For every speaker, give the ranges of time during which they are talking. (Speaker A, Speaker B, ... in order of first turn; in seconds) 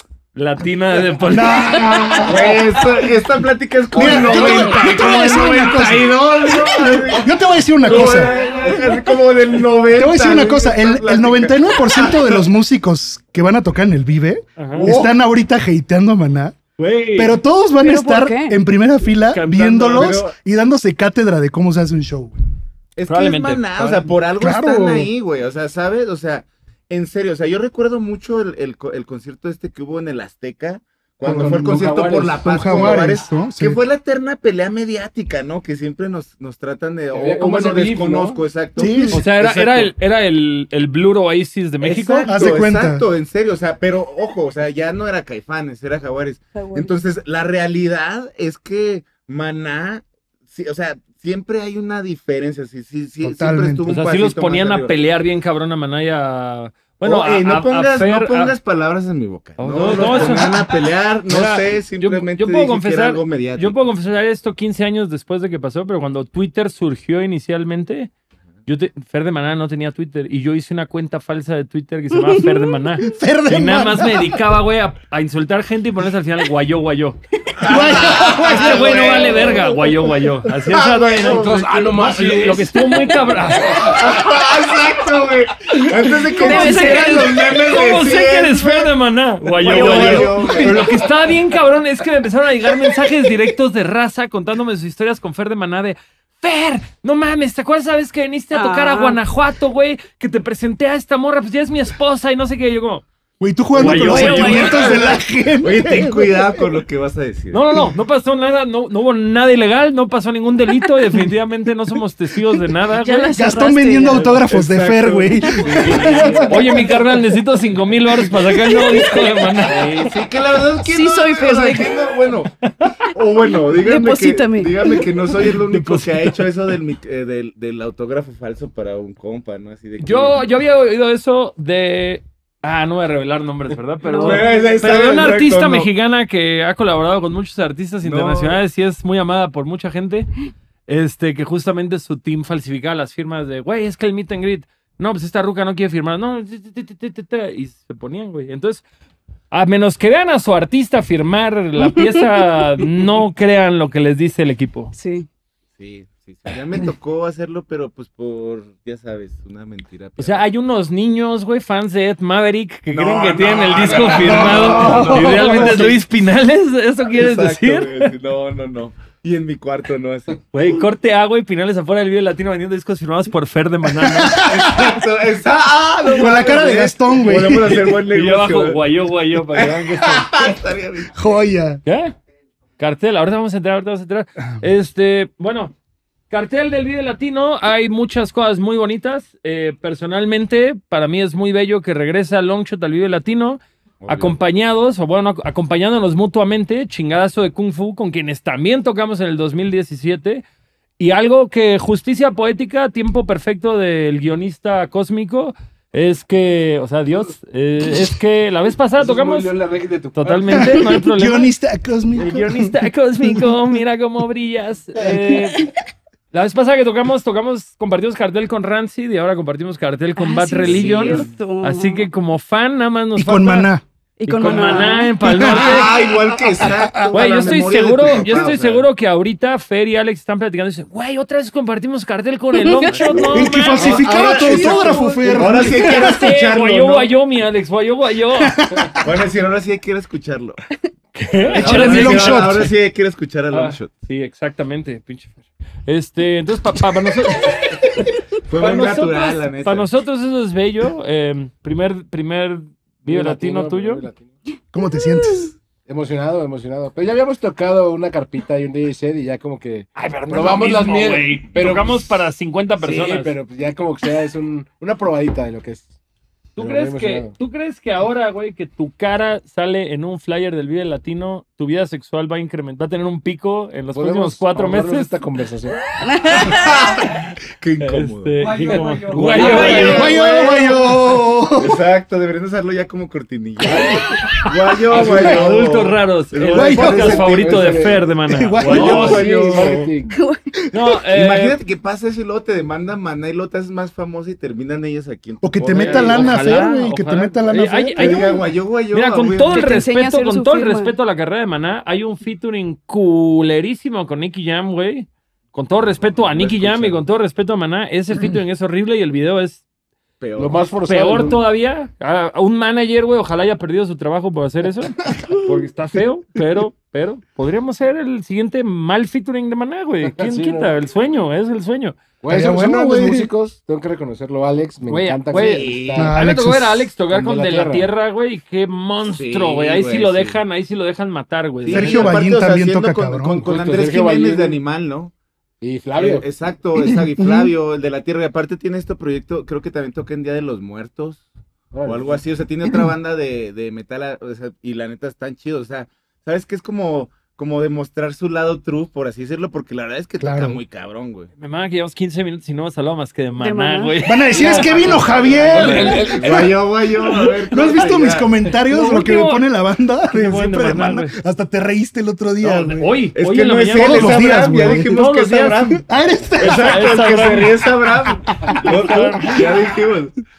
Speaker A: 0.3-1.9, 14.6-15.0, 16.8-17.4, 19.3-20.2, 23.1-24.1, 39.1-42.5, 53.9-58.5, 59.6-60.7, 61.3-68.1, 68.7-77.2, 77.8-84.3, 86.0-103.0, 103.7-105.0, 107.5-114.5, 115.8-120.1, 125.5-126.4, 130.0-140.3, 140.9-148.8, 149.5-154.9, 160.2-168.1, 170.5-174.5, 177.7-180.3, 181.8-182.2, 182.8-185.7, 186.3-200.4, 201.0-209.5, 210.2-211.5, 212.2-215.7, 216.3-223.7, 224.3-226.0, 227.1-238.6, 241.2-242.6, 243.5-254.0, 260.0-263.3, 266.6-275.1, 277.8-280.1, 284.3-289.8, 290.7-291.6, 295.8-309.6, 310.9-322.0, 324.9-332.2, 351.4-356.0, 358.7-359.4, 360.1-361.1, 362.4-365.8, 366.4-367.7, 368.6-369.6
Speaker B: 1.3-2.6, 3.9-8.3, 9.9-16.6, 17.1-22.4, 24.4-25.1, 32.4-33.8, 38.8-39.2, 42.2-43.0, 53.2-53.9, 73.0-74.4, 77.6-79.9, 103.4-106.7, 113.3-116.5, 164.2-165.9, 174.0-175.0, 176.1-177.9, 181.1-181.8, 210.7-213.5, 223.2-223.8, 224.7-225.9, 226.4-227.5, 233.3-236.2, 238.4-239.1, 241.5-242.7, 254.7-255.5, 279.2-281.8, 286.5-287.2, 288.3-289.2, 295.4-298.4, 322.3-323.3, 326.0-326.9, 331.7-333.5, 336.8-337.5, 350.2-350.6, 354.1-356.5, 357.5-363.0, 363.7-365.0, 365.8-367.0, 368.1-368.7
Speaker C: 2.2-7.3, 7.8-12.5, 14.8-15.1, 19.9-20.4, 22.9-39.9, 41.8-55.0, 57.0-63.8, 77.6-79.7, 80.7-82.3, 83.8-88.9, 89.5-91.0, 104.5-107.8, 114.5-116.9, 119.7-122.5, 123.1-130.4, 134.2-135.9, 138.0-138.6, 155.8-160.4, 162.9-166.0, 167.1-170.4, 174.4-178.8, 179.4-181.2, 194.0-194.4, 220.7-221.3, 225.4-228.9, 232.8-237.1, 239.0-240.6, 241.4-243.9, 248.5-249.9, 276.4-280.8, 281.6-288.0, 288.6-289.9, 291.1-296.7, 298.0-299.9, 306.0-307.0, 310.2-310.7, 325.3-326.1, 329.0-330.4, 331.6-335.1, 336.0-341.3, 341.8-351.3, 354.4-358.3, 363.1-365.9, 366.4-370.2
Speaker D: 17.8-18.6, 38.8-39.2, 46.5-47.0, 82.8-83.1, 86.4-87.3, 89.7-90.7, 98.5-99.2, 103.8-105.0, 113.0-114.2, 118.5-119.3, 120.8-122.0, 123.7-125.0, 134.0-134.7, 154.9-155.3, 220.2-222.1, 224.2-225.2, 232.6-233.2, 276.1-276.6, 290.1-290.4, 299.5-300.9, 353.4-354.0
Speaker E: 31.2-33.1, 37.1-38.4, 81.2-82.8, 115.8-116.5, 209.0-211.0, 253.1-254.3, 255.8-262.1, 262.8-265.9, 266.6-267.3, 273.9-275.8, 278.5-280.0, 284.9-285.5, 286.7-288.1, 288.8-290.1, 310.4-311.4, 320.0-320.8, 322.2-326.2, 327.1-327.9, 333.4-334.6, 335.6-336.3, 341.7-342.2, 354.4-355.0, 355.5-356.6